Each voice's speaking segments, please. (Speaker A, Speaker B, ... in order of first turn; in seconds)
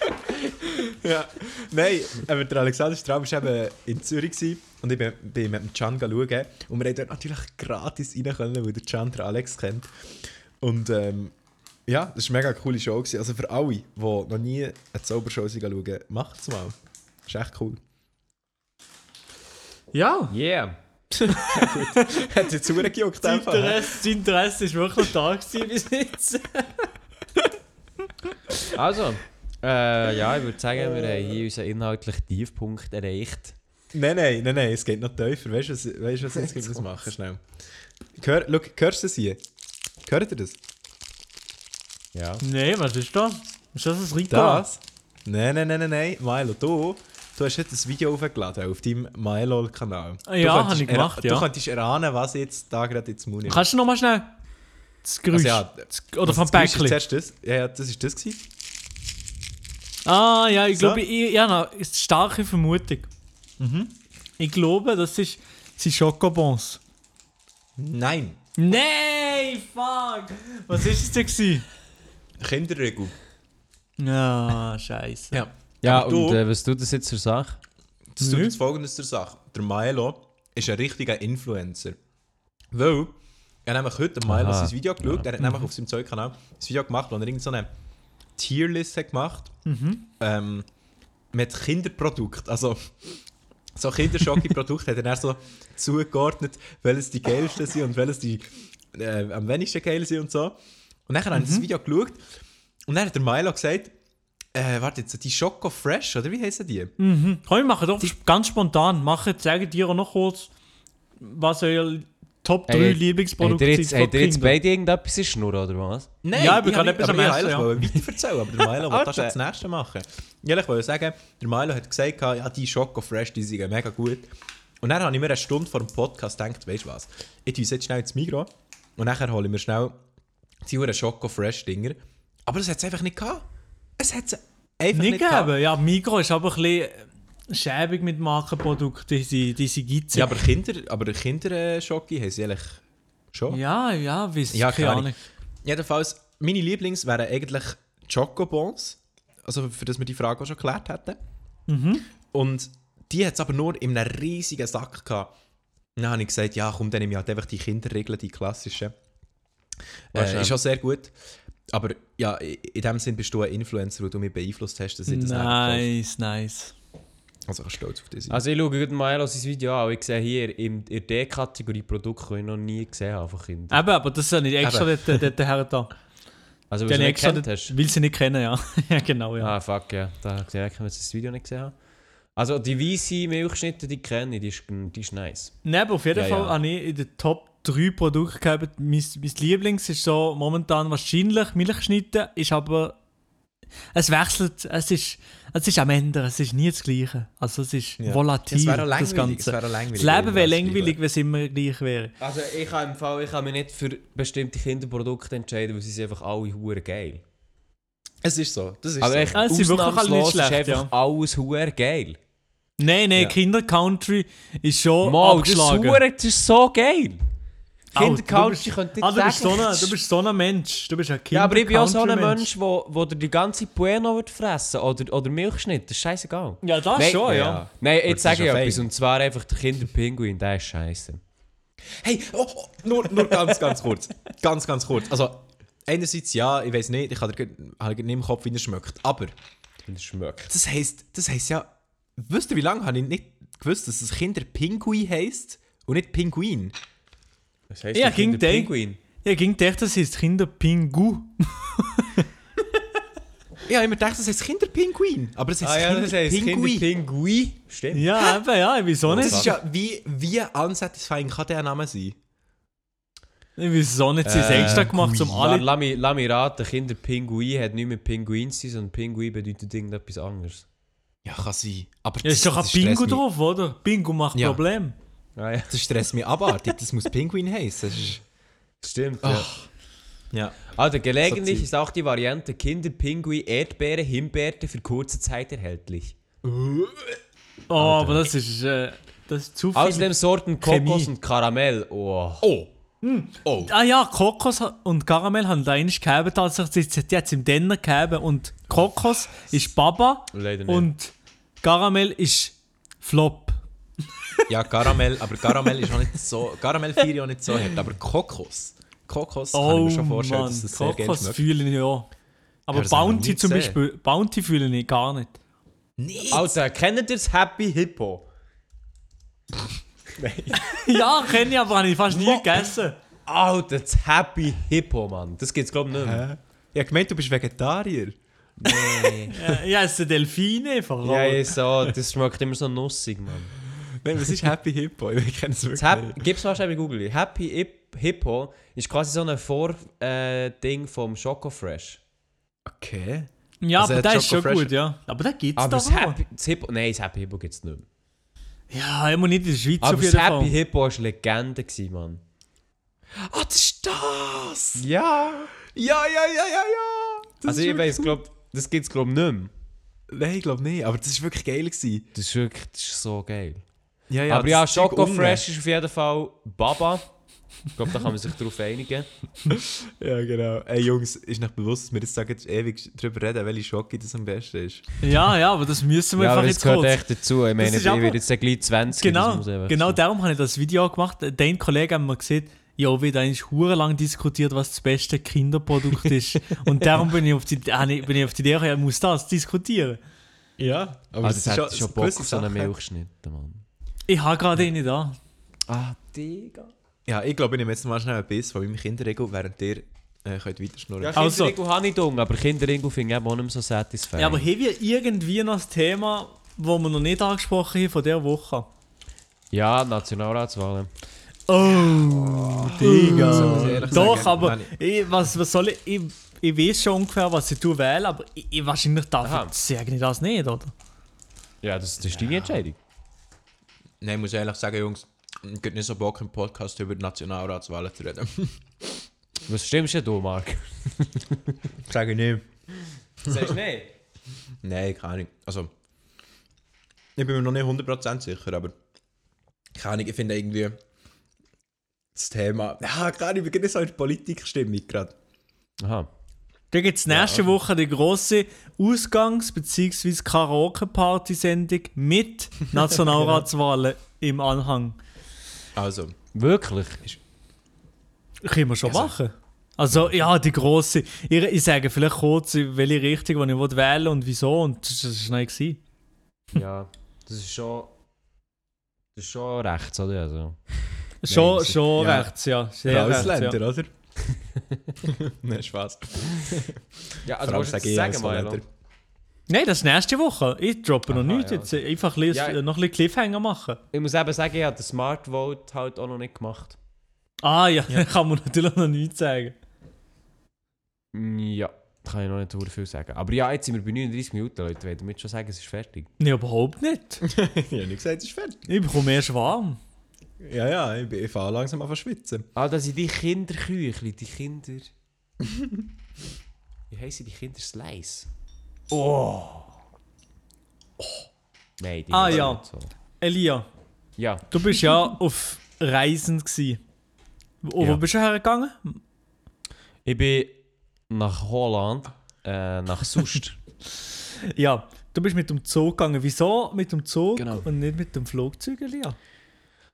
Speaker A: 0.3-11.3, 11.9-16.8, 17.3-17.8, 21.5-24.0, 30.8-31.4, 33.9-37.4, 38.2-39.4, 40.0-40.6, 44.3-53.6, 55.3-58.4, 60.7-61.0, 63.6-63.9, 67.8-68.4, 72.4-73.2, 75.3-76.4, 78.2-82.0, 82.7-87.7, 88.4-89.5, 90.2-90.7, 91.3-93.2, 93.8-102.2, 102.9-103.9, 104.5-106.9, 116.2-124.3, 124.8-130.0, 130.6-133.5, 134.0-135.5, 140.1-142.8, 143.3-143.6, 144.5-151.2, 152.3-155.3, 156.0-158.9, 160.1-161.1, 161.7-165.9, 167.5-168.4, 174.6-175.2, 198.0-201.0, 208.2-209.4, 227.3-228.9, 231.9-239.3, 240.5-246.8, 253.7-256.9, 259.1-262.2, 264.5-265.4, 271.2-273.2, 274.3-274.6, 275.7-278.2, 279.2-279.6, 280.3-280.7, 281.2-281.7, 286.4-287.2, 292.4-292.7, 293.4-293.7, 304.5-311.4, 312.7-313.8, 316.0-316.6, 320.2-321.0, 325.9-329.2, 333.9-336.2, 342.7-344.7, 353.1-354.9, 355.6-358.2, 360.1-362.1, 364.1-365.4, 369.5-374.9, 390.6-392.7, 397.1-401.2, 412.7-414.7, 422.1-422.6, 424.0-428.6, 431.9-432.5, 433.2-433.6, 434.6-435.7, 437.2-438.7, 439.8-440.8, 442.1-445.1, 455.8-456.2, 458.9-459.1, 471.8-472.3, 472.9-473.9, 475.0-478.6, 497.2-498.7, 500.4-502.5, 505.4-505.8
Speaker B: 19.9-20.3, 22.0-22.2, 23.2-26.9, 42.4-44.7, 50.3-51.5, 53.5-54.4, 55.0-57.0, 60.0-63.1, 64.4-66.8, 68.6-71.7, 74.0-75.4, 78.2-78.6, 85.4-85.7, 89.7-90.0, 101.3-101.7, 107.0-110.5, 111.2-114.6, 116.3-118.0, 134.9-140.4, 143.5-145.2, 151.7-152.1, 165.1-166.7, 173.7-175.9, 176.9-179.5, 185.7-193.0, 193.9-202.1, 209.3-210.9, 212.8-216.0, 217.9-222.5, 226.6-227.6, 247.9-252.3, 257.9-259.5, 263.6-265.7, 272.2-274.9, 287.7-290.1, 290.6-291.1, 293.0-303.6, 309.5-312.1, 312.7-315.4, 320.6-323.0, 329.3-331.5, 343.6-346.2, 348.7-350.5, 375.0-377.0, 377.6-378.2, 378.9-390.0, 394.1-395.2, 401.1-401.6, 404.2-408.7, 411.5-420.7, 446.7-455.0, 458.4-465.8, 471.2-473.6, 479.5-483.8, 487.4-489.6, 496.2-497.2, 498.7-499.8, 512.1-512.6, 513.2-513.7, 514.5-516.8, 517.6-519.0, 524.5-529.2
Speaker C: 20.3-21.7, 28.7-33.5, 42.1-42.4, 75.8-77.6, 84.3-85.3, 112.7-116.1, 118.9-119.3, 160.1-160.6, 168.3-173.8, 176.7-177.8, 179.4-181.7, 182.4-185.6, 186.1-186.6, 202.2-207.2, 209.0-212.2, 215.0-217.2, 217.9-219.9, 221.3-231.2, 239.9-240.5, 247.7-249.0, 255.6-258.3, 259.1-259.5, 264.2-270.6, 275.4-275.9, 278.8-279.5, 280.7-286.1, 287.8-288.3, 289.8-292.5, 300.3-300.9, 316.3-318.3, 323.3-326.3, 328.6-329.4, 331.0-333.6, 335.8-342.0, 345.6-347.9, 349.8-352.2, 354.8-355.5, 357.4-359.5, 362.1-363.6, 364.3-367.1, 367.7-369.1, 376.2-380.0, 391.2-393.6, 395.7-396.7, 401.0-404.5, 409.5-410.9, 413.3-414.0, 419.2-419.5, 421.6-422.8, 429.5-431.6, 433.2-433.9, 445.8-446.1, 447.1-447.4, 456.3-457.1, 466.5-467.9, 469.2-471.8, 477.2-478.6, 481.1-481.8, 482.3-482.6, 483.9-486.8, 491.1-496.1, 502.6-504.9, 506.9-508.3, 508.9-509.7, 511.8-512.9, 514.2-514.8, 520.0-520.6, 521.1-523.6, 527.4-527.7